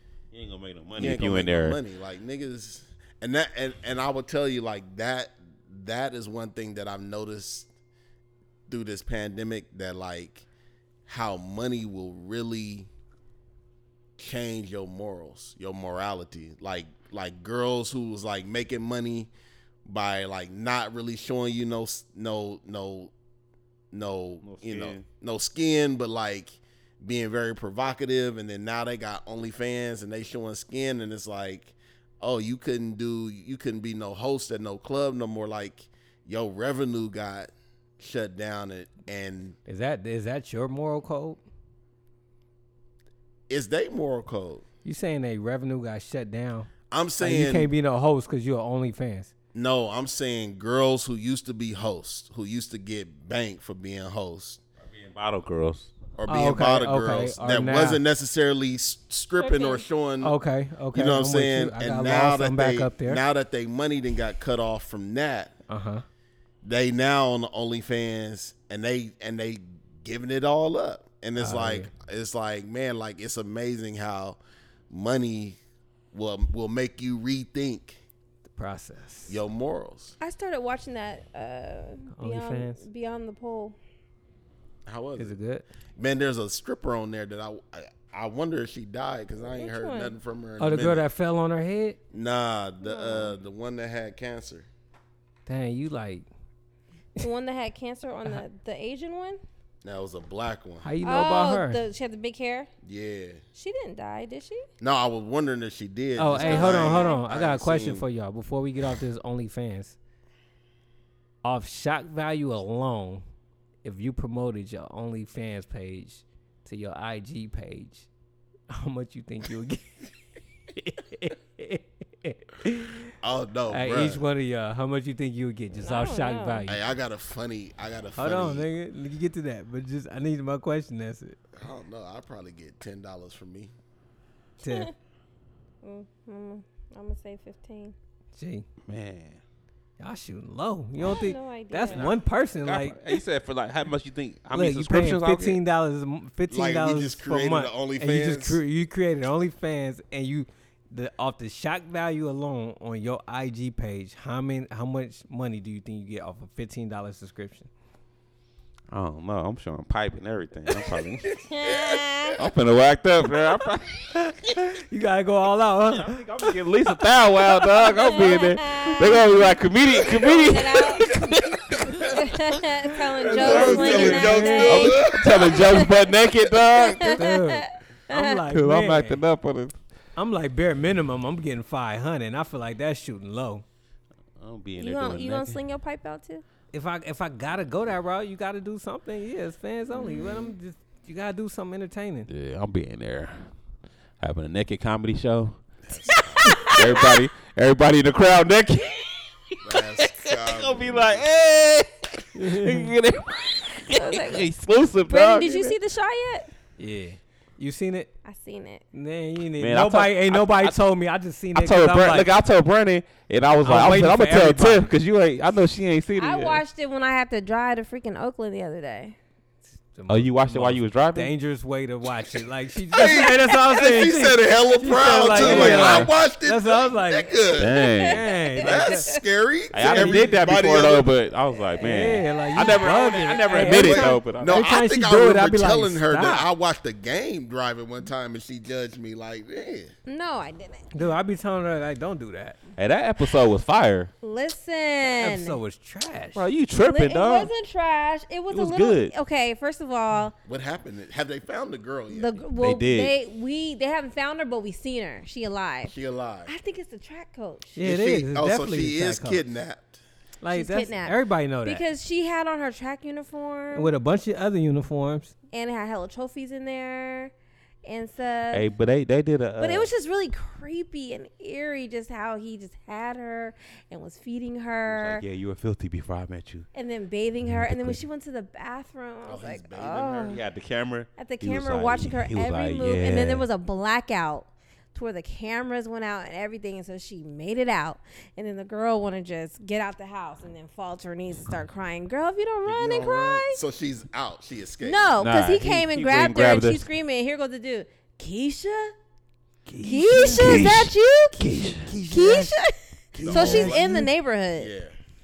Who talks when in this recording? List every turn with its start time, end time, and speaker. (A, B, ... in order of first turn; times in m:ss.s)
0:00.3-0:01.8 A
0:01.0-0:07.7 B
0:08.7-0:10.4 B
0:11.1-0:12.9 B
0:14.2-0:19.3 B
0:19.8-0:23.1 B
0:23.9-0:39.6 B
0:24.4-0:25.0 A
0:39.7-0:41.4 C
0:43.5-0:44.6 B
0:44.8-0:46.7 C
0:46.9-0:47.7 B
0:47.2-0:49.3 C
0:49.5-0:54.6 B
0:54.8-0:55.9 A
0:56.2-1:00.3 B
0:56.3-0:58.0 C
0:59.4-0:59.8 D
1:00.2-1:03.2 C
1:00.9-1:05.5 B
1:05.7-1:06.0 C
1:06.6-1:14.4 B
1:11.4-1:11.9 C
1:14.9-1:15.6 B
1:16.1-1:18.0 B
1:18.5-1:19.4 C
1:19.3-1:20.1 B
1:20.2-1:23.8 D
1:22.1-1:22.8 C
1:24.8-1:25.4 B
1:25.2-1:25.6 C
1:26.0-1:31.0 B
1:29.5-1:30.1 D
1:30.6-1:32.0 C
1:32.1-1:34.7 B
1:32.8-1:33.4 D
1:35.4-1:36.2 C
1:37.2-1:39.4 D
1:39.8-1:40.9 B
1:40.8-1:41.8 C
1:41.0-1:42.7 D
1:42.8-1:43.4 B
1:43.5-1:44.7 D
1:44.8-1:48.0 B
1:46.2-1:50.0 C
1:46.3-1:47.2 D
1:51.4-1:53.2 C
1:53.8-1:58.1 C
1:58.7-2:00.1 C
2:00.7-2:03.1 C
2:03.2-2:04.2 B
2:03.7-2:06.8 C
2:05.8-2:06.7 D
2:06.7-2:08.7 B
2:08.2-2:11.4 C
2:11.5-2:13.7 B
2:14.6-2:14.9 C
2:14.6-2:14.9 D
2:15.8-2:17.9 D
2:18.4-2:18.7 C
2:18.8-2:19.4 A
2:20.0-2:23.0 C
2:21.0-2:22.1 D
2:21.9-2:25.6 A
2:24.5-2:37.7 C
2:26.5-2:28.6 B
2:38.9-2:41.3 A
2:41.3-2:42.4 D
2:41.6-2:42.0 B
2:42.4-2:44.1 A
2:44.4-2:46.2 C
2:45.9-2:52.6 A
2:47.7-2:49.3 D
2:50.0-2:51.4 D
2:51.3-2:52.2 B
2:52.0-2:58.4 D
2:53.2-2:55.8 B
2:53.2-2:57.2 A
2:53.4-2:54.9 C
2:57.1-2:59.2 C
2:58.5-2:59.8 A
3:00.2-3:03.6 C
3:04.4-3:05.6 A
3:04.8-3:06.4 D
3:06.7-3:12.3 C
3:09.9-3:10.5 D
3:12.3-3:13.5 A
3:14.2-3:15.6 A
3:15.9-3:16.6 B
3:16.2-3:17.2 D
3:16.7-3:25.7 A
3:19.6-3:21.2 B
3:22.3-3:22.9 C
3:23.9-3:24.5 D
3:25.1-3:26.5 D
3:26.8-3:28.1 C
3:28.2-3:28.8 D
3:28.9-3:32.3 C
3:29.6-3:30.8 A
3:31.5-3:36.6 A
3:33.6-3:34.9 C
3:36.2-3:39.2 D
3:39.9-3:47.4 C
3:40.1-3:41.3 A
3:42.9-3:47.8 B
3:45.2-3:46.1 A
3:47.6-3:48.2 A
3:47.6-3:49.2 D
3:48.0-3:49.1 C
3:48.6-3:51.1 B
3:49.7-3:54.7 A
3:49.8-3:50.5 C
3:51.6-3:52.8 D
3:51.8-3:56.5 C
3:53.6-3:59.9 B
4:00.0-4:00.9 D
4:00.9-4:02.6 C
4:02.8-4:04.1 A
4:04.2-4:05.6 D
4:05.0-4:06.4 C
4:06.3-4:07.5 A
4:06.8-4:10.4 D
4:08.5-4:09.1 A
4:10.4-4:12.4 B
4:12.1-4:15.9 D
4:12.6-4:13.1 A
4:15.8-4:16.5 B
4:16.5-4:17.8 D
4:17.8-4:19.4 C
4:17.8-4:20.0 B
4:20.4-4:21.8 C
4:20.5-4:23.9 D
4:23.7-4:25.3 C
4:25.5-4:27.3 D
4:27.8-4:28.7 D
4:28.5-4:29.9 A
4:29.6-4:35.2 D
4:34.8-4:36.7 A
4:36.7-4:40.4 D
4:37.7-4:37.9 A
4:39.2-4:40.4 B
4:40.2-4:43.4 A
4:41.2-4:53.6 D
4:52.6-4:55.1 B
4:54.8-4:58.9 D
4:55.2-4:56.8 A
4:59.7-5:02.0 A
4:59.8-5:00.6 C
4:59.8-5:01.4 D
5:01.4-5:02.6 C
5:02.1-5:04.7 D
5:03.1-5:03.9 B
5:03.2-5:04.1 C
5:04.6-5:04.9 B